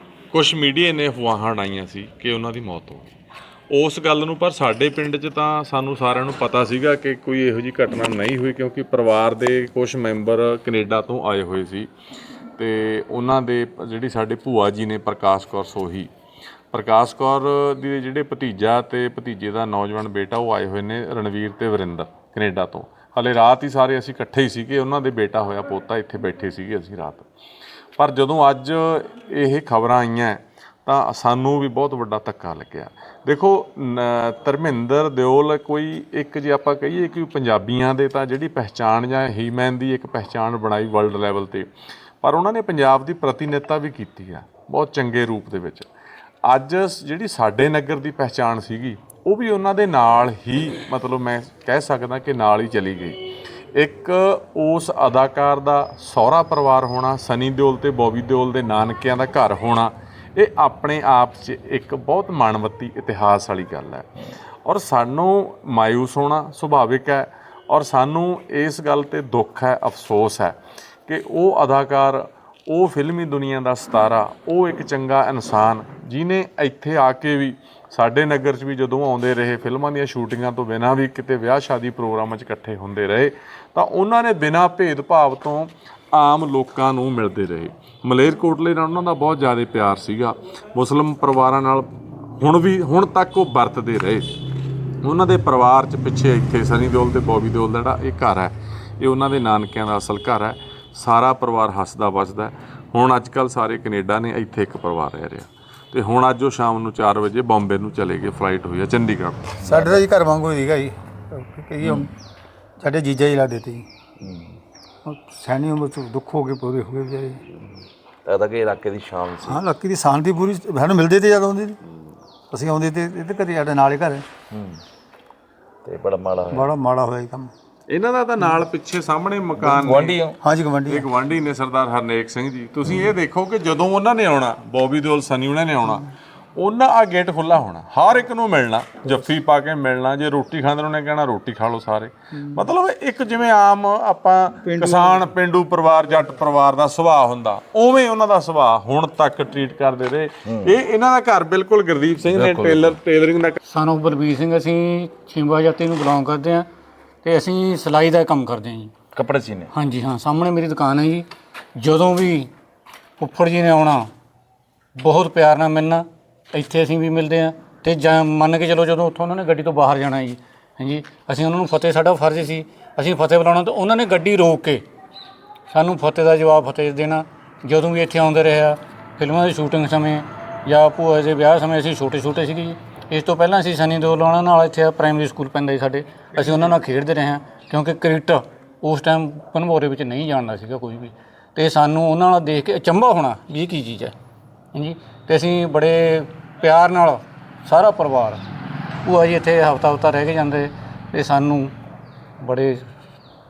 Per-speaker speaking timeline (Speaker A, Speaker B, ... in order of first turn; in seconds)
Speaker A: 0.3-3.1, 3.7-11.9, 12.6-16.1, 16.7-27.3, 28.0-41.7, 42.2-45.9, 46.4-53.2, 53.8-64.1, 64.6-94.3, 95.0-109.6, 127.9-130.2, 130.8-153.6
Speaker B: 109.7-110.0, 114.2-114.6, 117.5-119.6, 124.5-124.8, 125.8-126.7, 129.6-130.4, 150.4-150.8, 152.3-152.9, 159.1-159.7
Speaker C: 109.7-112.1, 112.8-113.8, 115.0-117.4, 119.4-121.8, 122.5-124.2, 126.5-127.5, 130.4-131.1
Speaker D: 153.7-156.7, 157.2-158.9, 159.7-161.3, 161.8-162.5, 163.2-164.1, 165.0-174.8, 175.7-194.1, 194.7-198.4, 199.0-201.7, 202.4-202.9